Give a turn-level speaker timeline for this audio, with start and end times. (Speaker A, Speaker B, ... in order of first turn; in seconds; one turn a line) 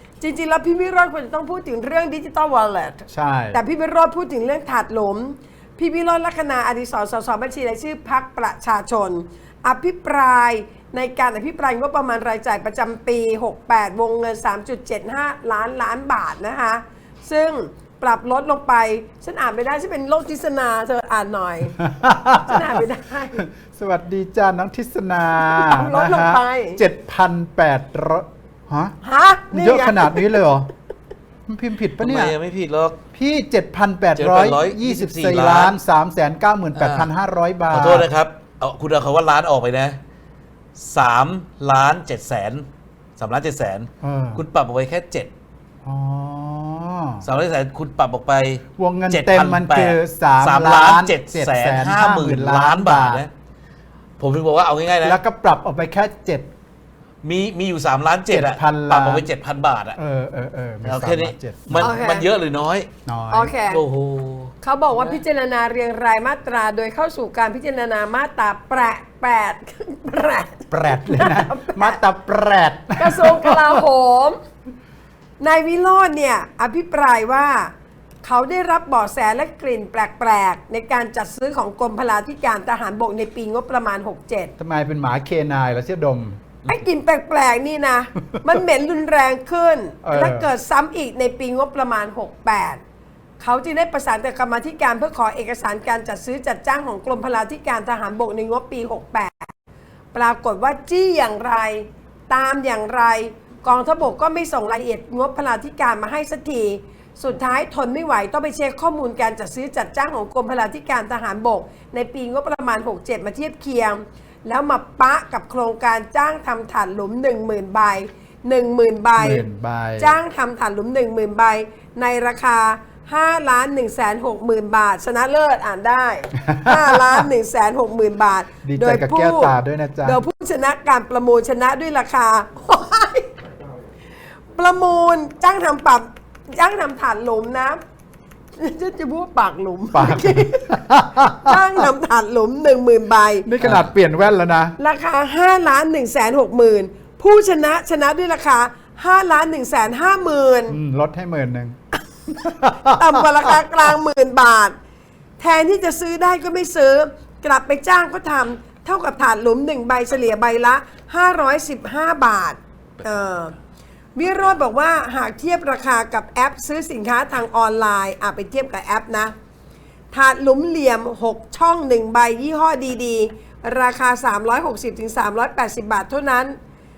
Speaker A: 0.2-23.4
Speaker B: 3.1-3.6
Speaker B: 21.8-22.6
Speaker B: 23.4-29.0
Speaker A: 25.4-26.8
Speaker A: 29.0-30.4
Speaker B: 29.5-30.7
Speaker B: 31.5-32.4
Speaker C: 32.0-33.0
Speaker B: 33.1-38.1
Speaker C: 34.1-35.8
Speaker C: 36.8-37.1
Speaker C: 37.7-40.0
Speaker C: 40.8-45.3
Speaker B: 44.0-44.4
Speaker B: 45.9-47.2
Speaker C: 47.2-53.3
Speaker B: 48.8-53.2
Speaker C: 54.2-55.2
Speaker B: 55.0-56.5
Speaker C: 57.2-60.0
Speaker B: 58.3-59.3
Speaker B: 60.0-61.9
Speaker C: 60.8-62.9
Speaker A: 61.8-62.3
Speaker B: 63.1-63.5
Speaker A: 63.3-63.8
Speaker C: 63.7-65.2
Speaker A: 64.6-72.0
Speaker B: 70.7-73.8
Speaker A: 73.0-74.4
Speaker A: 75.4-77.7
Speaker A: 78.2-84.5
Speaker B: 84.6-86.4
Speaker A: 86.7-92.8
Speaker B: 90.0-90.5
Speaker A: 93.4-99.5
Speaker A: 100.1-119.4
Speaker B: 119.2-120.2
Speaker A: 120.0-133.3
Speaker B: 126.4-127.3
Speaker B: 128.6-130.2
Speaker A: 134.5-137.8
Speaker A: 138.6-143.5
Speaker B: 139.9-141.8
Speaker B: 143.4-144.8
Speaker C: 143.6-143.9
Speaker A: 144.8-150.8
Speaker B: 150.7-151.8
Speaker B: 152.3-153.6
Speaker A: 152.9-154.8
Speaker A: 155.4-163.6
Speaker A: 164.2-169.3
Speaker A: 170.1-176.6